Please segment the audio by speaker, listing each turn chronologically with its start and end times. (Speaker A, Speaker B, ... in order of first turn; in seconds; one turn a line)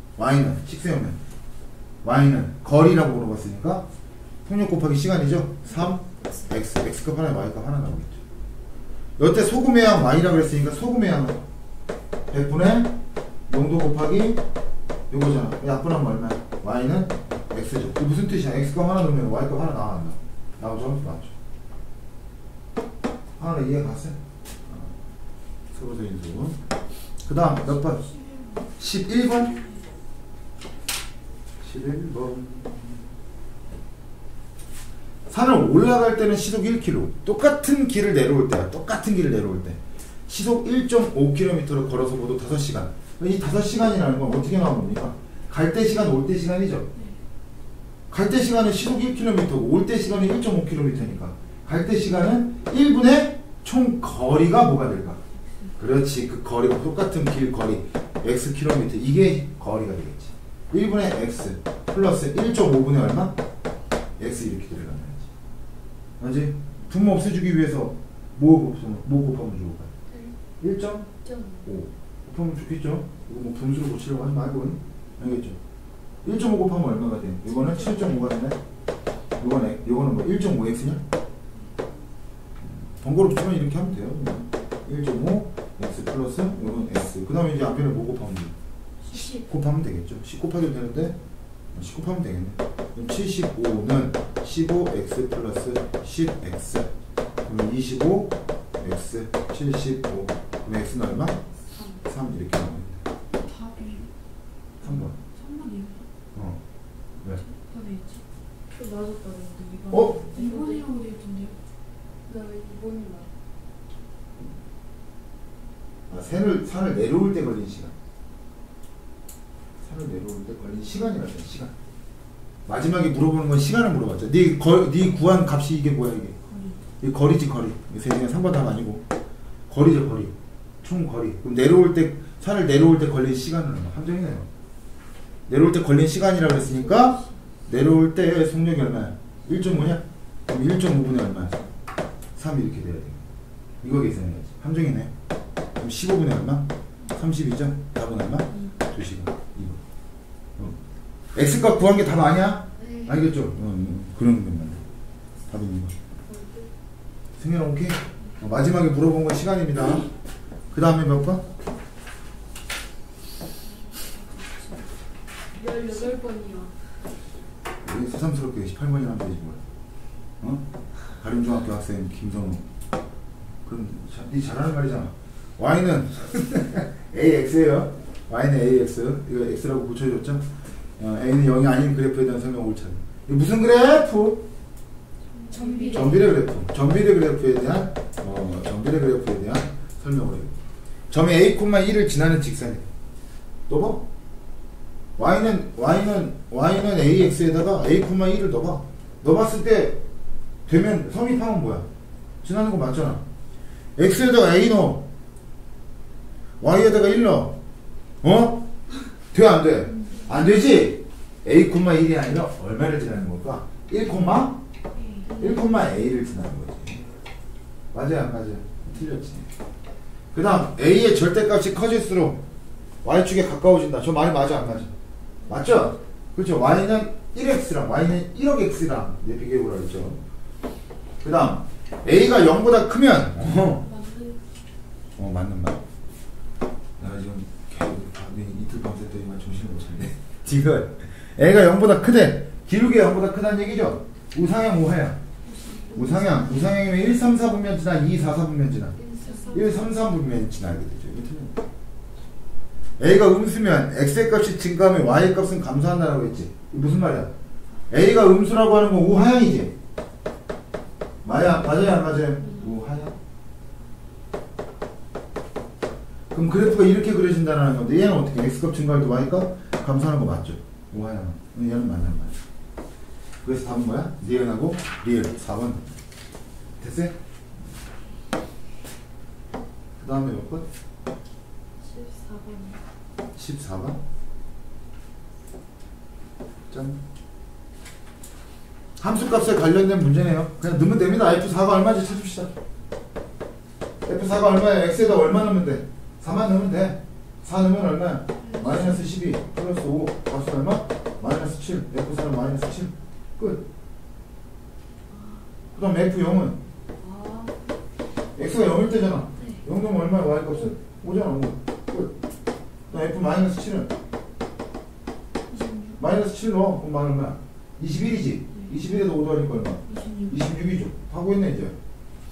Speaker A: 0.2-1.2
Speaker A: 2.0-3.9
Speaker A: 4.5-8.2
Speaker B: 6.0-6.5
Speaker A: 9.2-11.4
Speaker A: 12.3-12.9
Speaker A: 13.5-14.4
Speaker A: 15.1-21.3
Speaker A: 23.4-24.9
Speaker A: 25.7-26.6
Speaker A: 27.3-28.0
Speaker C: 27.7-28.8
Speaker A: 28.8-29.6
Speaker A: 31.6-33.0
Speaker A: 35.3-46.9
Speaker A: 48.1-55.2
Speaker A: 55.8-63.4
Speaker A: 64.2-65.3
Speaker A: 66.2-69.9
Speaker B: 70.1-70.3
Speaker A: 70.6-71.1
Speaker B: 71.2-71.7
Speaker A: 71.7-75.6
Speaker A: 76.2-78.6
Speaker A: 79.4-81.0
Speaker A: 82.6-88.5
Speaker C: 89.1-89.4
Speaker A: 89.1-91.2
Speaker B: 89.2-89.4
Speaker A: 91.7-96.9
Speaker A: 97.5-101.4
Speaker B: 101.7-102.0
Speaker A: 102.0-103.0
Speaker C: 103.3-104.1
Speaker A: 104.8-105.1
Speaker C: 105.2-106.0
Speaker A: 106.3-106.6
Speaker C: 107.4-108.2
Speaker B: 108.7-110.9
Speaker A: 109.9-110.2
Speaker C: 110.0-111.6
Speaker B: 112.3-113.3
Speaker A: 116.1-117.9
Speaker A: 119.8-121.7
Speaker A: 122.7-126.4
Speaker C: 126.5-126.8
Speaker A: 127.0-129.0
Speaker A: 129.7-134.5
Speaker A: 135.5-141.6
Speaker B: 136.8-137.3
Speaker A: 142.4-143.2
Speaker A: 143.8-145.1
Speaker A: 145.8-149.8
Speaker A: 151.3-154.8
Speaker B: 152.8-153.3
Speaker A: 155.5-155.9
Speaker B: 156.2-156.7
Speaker A: 157.4-160.1
Speaker A: 160.7-161.5
Speaker C: 163.8-164.8
Speaker B: 165.5-166.7
Speaker A: 167.8-169.6
Speaker A: 171.2-172.6
Speaker A: 173.7-180.5
Speaker A: 181.0-184.4
Speaker C: 185.3-186.2
Speaker B: 185.5-186.3
Speaker A: 185.9-190.5
Speaker A: 191.1-192.8
Speaker A: 193.7-194.1
Speaker A: 195.2-200.0
Speaker A: 200.7-201.9
Speaker A: 202.4-203.2
Speaker A: 204.0-205.1
Speaker A: 206.6-207.6
Speaker A: 208.2-208.7
Speaker A: 209.3-214.6
Speaker C: 214.9-215.3
Speaker B: 215.2-215.7
Speaker A: 215.4-217.1
Speaker A: 217.9-219.5
Speaker A: 220.3-222.4
Speaker A: 223.0-224.9
Speaker A: 225.5-230.2
Speaker A: 231.2-233.9
Speaker C: 233.8-234.4
Speaker A: 235.2-235.8
Speaker A: 237.0-245.2
Speaker C: 245.5-246.3
Speaker B: 245.8-246.4
Speaker A: 245.9-249.0
Speaker B: 248.9-249.9
Speaker C: 249.2-249.7
Speaker A: 249.5-251.6
Speaker A: 253.0-257.3
Speaker A: 257.9-259.7
Speaker A: 261.2-263.2
Speaker A: 266.3-272.4
Speaker A: 273.4-275.9
Speaker A: 276.8-277.2
Speaker A: 280.0-280.7
Speaker B: 281.8-282.8
Speaker A: 283.4-284.0
Speaker A: 286.7-287.0
Speaker A: 289.0-292.5
Speaker A: 294.0-303.6
Speaker C: 298.4-298.9
Speaker A: 305.7-306.6
Speaker B: 307.0-307.6
Speaker A: 308.4-312.1
Speaker B: 309.4-309.6
Speaker A: 312.9-313.9
Speaker C: 315.5-316.0
Speaker A: 316.0-321.8
Speaker C: 319.9-320.4